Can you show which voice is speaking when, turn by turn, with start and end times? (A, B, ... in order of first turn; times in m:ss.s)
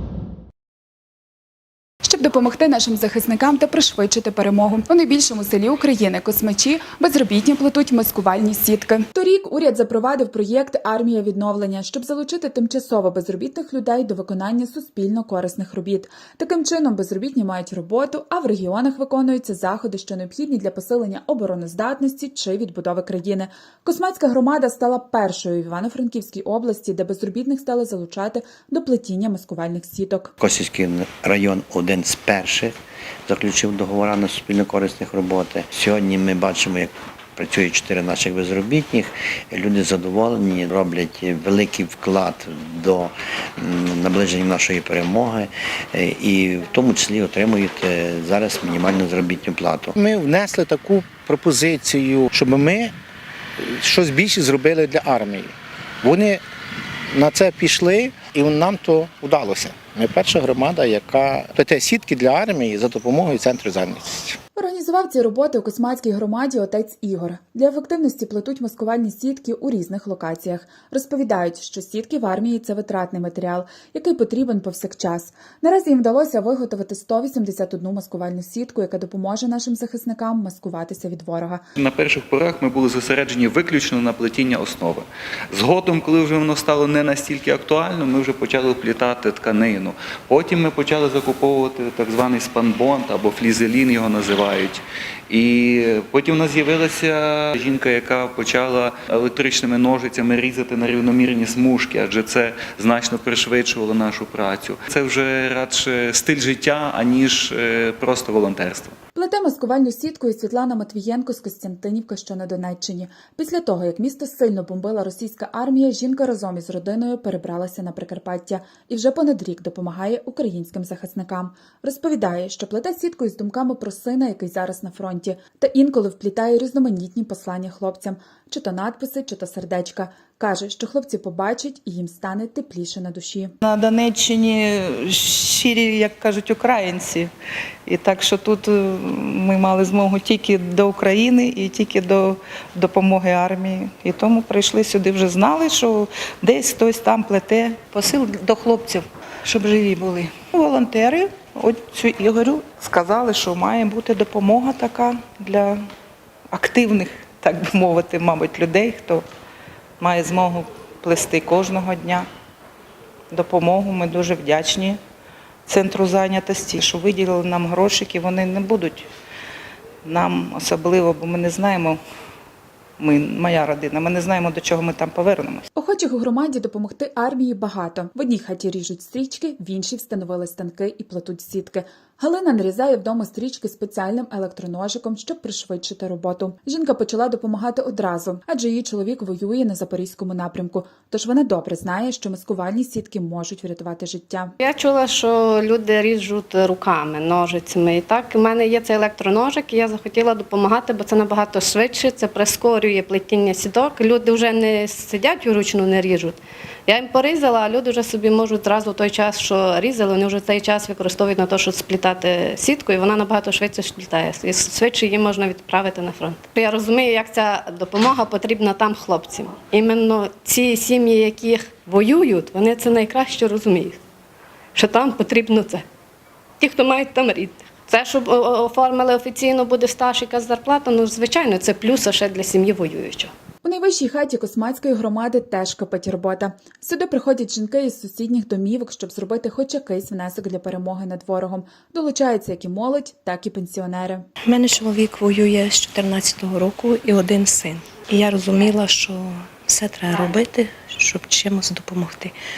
0:02.0-0:30.3 A
0:30.4-0:32.7 B
0:33.3-0:50.0 B
0:50.0-0:52.9 C
0:53.6-0:56.4 C
0:57.1-1:04.4 C
1:04.6-1:21.6 A
1:21.8-1:48.9 D
1:49.2-2:13.5 A
2:13.6-2:17.3 E
2:17.9-2:35.8 E
2:36.5-2:39.2 E
2:40.0-2:42.3 E
2:43.3-2:45.0 E
2:45.7-2:49.1 E
2:50.0-2:52.0 E
2:53.0-2:55.6 E
2:55.8-3:14.5 A
3:14.6-3:44.0 F
3:44.8-3:45.8 F
3:46.6-3:53.3 F
3:53.6-4:04.3 A
4:04.4-4:12.4 G